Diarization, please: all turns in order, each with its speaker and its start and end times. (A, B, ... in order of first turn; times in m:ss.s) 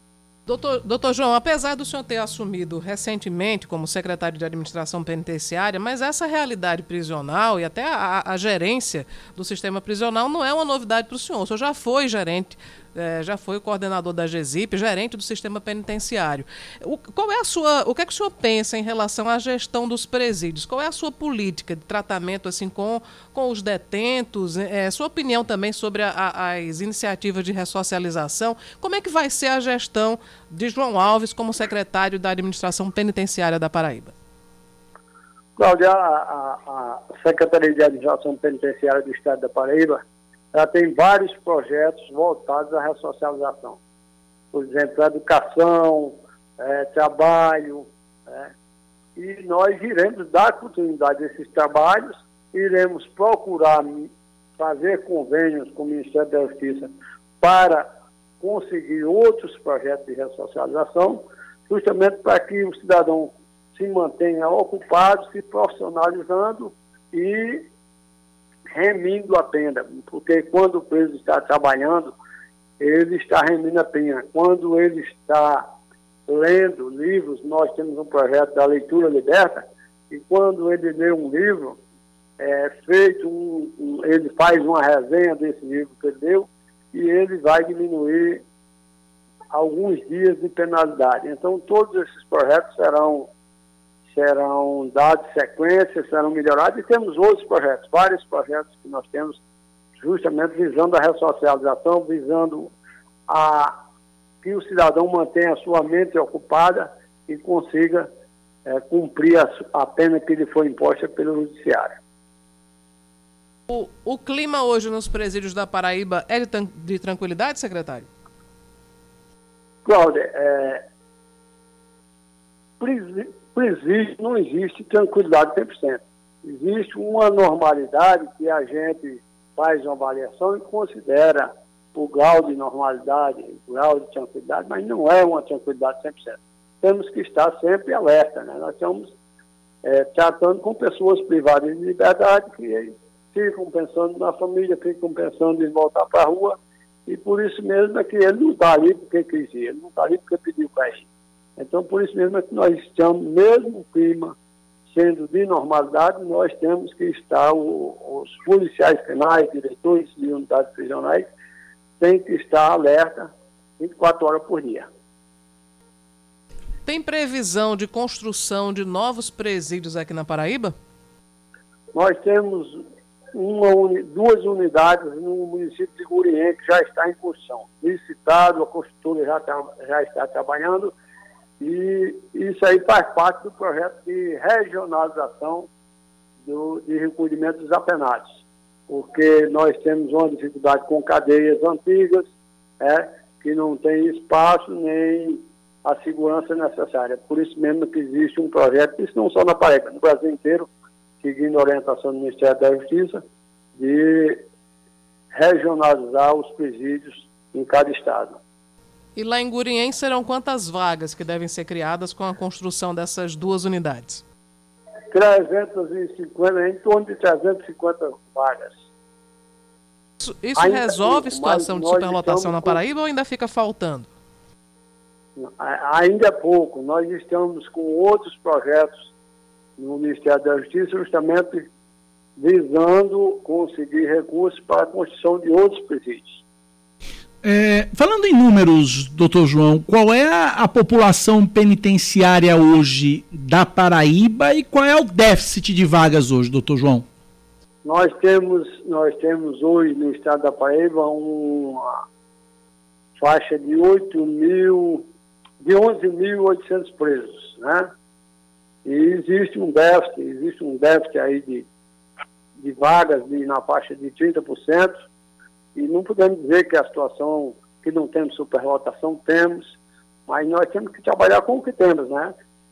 0:00.5-0:34.1 A
0:35.6-0:40.0 B
0:40.5-0:43.8 B
0:44.5-0:48.5 B
0:49.2-0:57.9 B
0:58.4-1:07.6 B
1:08.7-1:12.1 B
1:12.8-1:15.6 B
1:16.3-1:21.8 B
1:22.4-1:28.4 B
1:29.5-1:33.3 B
1:34.1-1:39.4 B
1:40.0-1:42.7 B
1:43.3-1:43.8 B
1:44.4-1:48.1 B
1:48.7-1:52.0 B
1:53.7-1:58.1 A
1:59.8-2:00.8 B
2:02.8-2:19.1 B
2:19.8-2:31.0 B
2:31.6-2:34.3 B
2:34.9-2:41.3 B
2:42.0-2:44.9 B
2:46.8-2:50.7 A
2:51.9-2:52.8 B
2:53.3-3:00.9 B
3:01.6-3:05.7 B
3:06.4-3:08.3 B
3:08.9-3:12.2 B
3:12.8-3:20.7 B
3:21.2-3:23.2 B
3:23.8-3:24.4 B
3:25.3-3:28.4 B
3:29.2-3:34.2 A
3:35.1-3:38.8 B
3:40.2-3:44.1 A
3:40.6-3:42.8 B
3:45.4-3:49.0 B
3:49.8-3:51.7 B
3:52.4-3:56.4 B
3:57.4-4:07.0 C
4:07.8-4:12.0 B
4:13.2-4:15.0 B
4:15.6-4:17.9 B
4:18.8-4:21.6 B
4:22.6-4:24.9 B
4:25.7-4:29.7 B
4:30.3-4:32.3 B